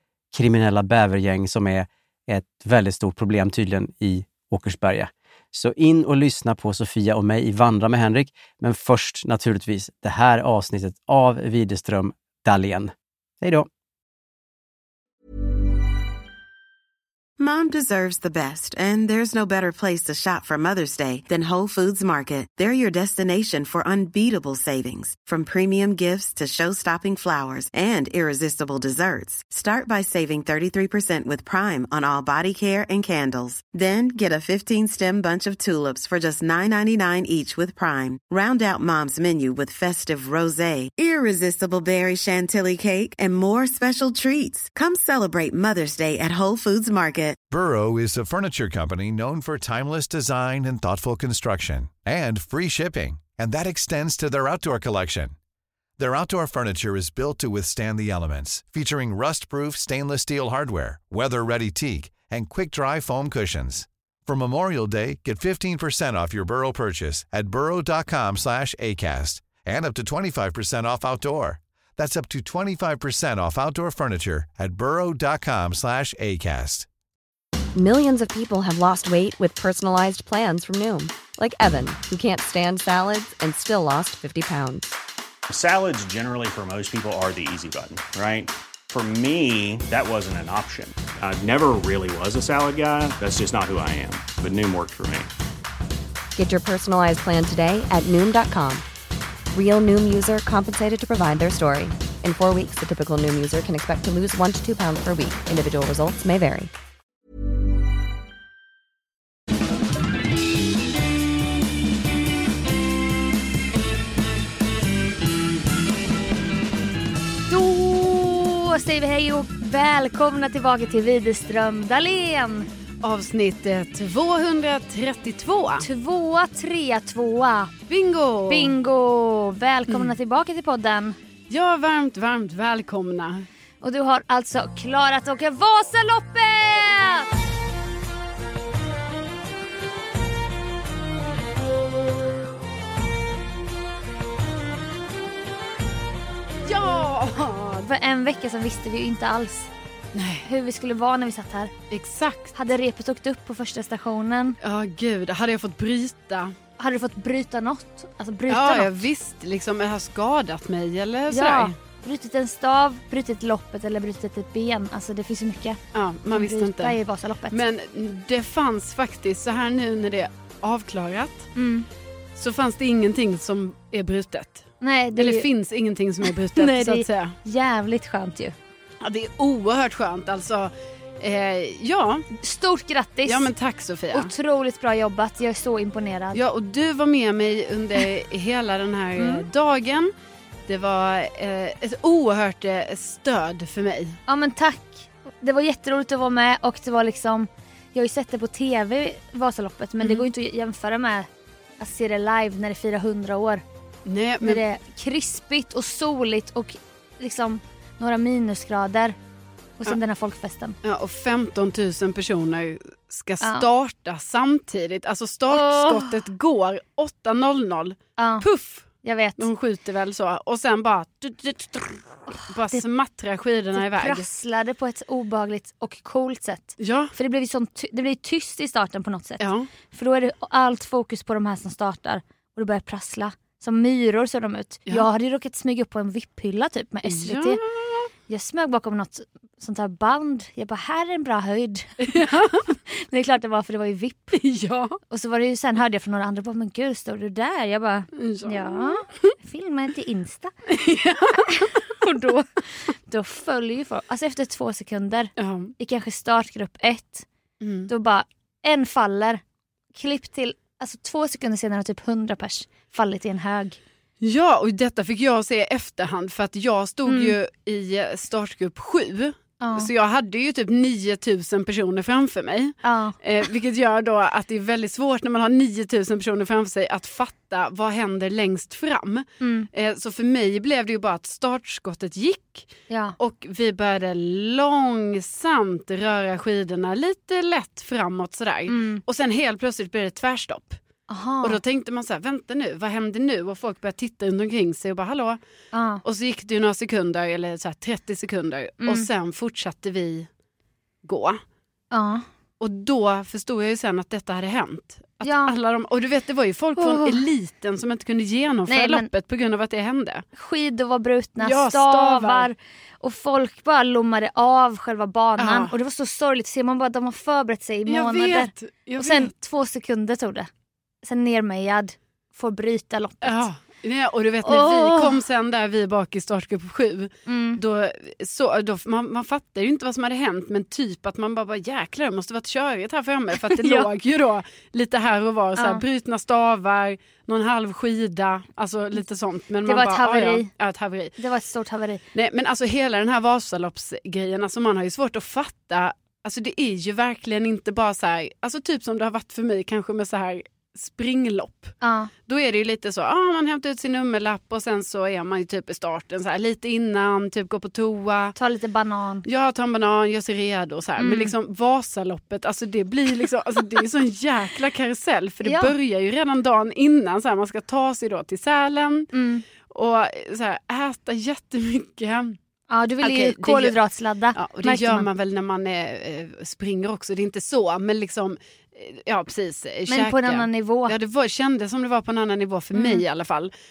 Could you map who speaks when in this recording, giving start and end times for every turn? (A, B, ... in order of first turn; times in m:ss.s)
0:00.3-0:13.7 A
0:17.4-0:47.4 B
0:47.5-0:55.4 C
0:56.0-1:16.9 C
1:17.8-1:25.0 D
1:25.5-1:35.3 E
1:36.4-1:38.8 D
1:39.5-1:46.7 D
1:57.5-2:02.7 F
2:03.0-2:05.9 G
2:05.8-2:07.7 F
2:07.9-2:08.8 G
2:08.5-2:11.2 F
2:09.9-2:10.1 G
2:11.5-2:13.5 G
2:13.8-2:17.3 F
2:26.6-2:27.8 G
2:27.8-2:29.7 F
2:30.1-2:30.5 G
2:30.4-2:31.7 F
2:31.9-2:32.6 G
2:32.6-2:34.6 F
2:34.6-2:36.6 G
2:36.8-2:39.1 F
2:38.5-2:41.7 G
2:41.3-2:47.6 F
2:45.9-2:47.0 G
2:47.5-2:51.5 G
2:51.6-2:51.9 F
2:52.4-2:57.4 G
2:54.8-2:55.5 F
2:56.2-2:58.6 F
2:59.0-3:02.3 G
3:02.4-3:03.5 F
3:03.3-3:04.3 G
3:04.1-3:06.4 F
3:06.3-3:10.1 G
3:09.2-3:09.4 F
3:10.7-3:14.2 G
3:14.3-3:21.3 F
3:20.0-3:20.3 G
3:21.8-3:23.6 F
3:24.1-3:24.6 G
3:24.4-3:29.2 F
3:29.8-3:30.8 F
3:30.8-3:44.3 G
3:33.4-3:33.7 F
3:35.5-3:36.2 F
3:38.2-3:38.5 F
3:39.0-3:39.5 F
3:43.8-3:57.6 F
3:46.8-3:47.1 G
3:49.4-3:49.7 G
3:57.1-3:58.1 G
3:58.3-4:02.1 F
4:02.0-4:02.8 G
4:03.0-4:04.4 F
4:04.3-4:05.0 G
4:05.1-4:10.5 F
4:08.1-4:09.3 G
4:10.7-4:11.8 G
4:11.5-4:12.5 F
4:13.1-4:17.3 F
4:15.4-4:15.7 G
4:17.6-4:17.9 G
4:17.9-4:19.4 F
4:19.9-4:23.8 F
4:24.2-4:50.8 G
4:27.1-4:27.4 F
4:29.6-4:29.9 F
4:32.8-4:33.2 F
4:39.4-4:39.7 F
4:42.9-4:43.2 F
4:48.7-4:49.0 F
4:51.1-4:51.6 F
4:51.4-4:55.4 G
4:55.7-4:56.0 F
4:56.0-5:00.3 G
5:01.0-5:01.4 G
5:01.9-5:02.2 F
5:02.6-5:10.2 G
5:05.2-5:05.5 F
5:06.8-5:07.2 F
5:08.7-5:09.1 F
5:10.4-5:20.5 F
5:11.4-5:12.5 G
5:15.4-5:15.8 G
5:17.9-5:19.3 G
5:21.0-5:23.5 F
5:23.2-5:41.2 G
5:24.4-5:25.2 F
5:27.3-5:27.6 F
5:33.4-5:33.9 F
5:35.6-5:35.8 F
5:39.7-5:40.5 F
5:41.2-5:42.0 F
5:42.1-5:58.4 G
5:51.8-5:52.1 F
5:58.4-5:59.3 F
5:59.3-6:09.1 G
6:01.0-6:01.3 F
6:05.4-6:05.7 F
6:09.1-6:09.4 F
6:09.7-6:12.4 G
6:12.7-6:15.1 F
6:13.0-6:13.8 G
6:14.4-6:23.5 G
6:19.9-6:21.0 F
6:22.8-6:23.0 F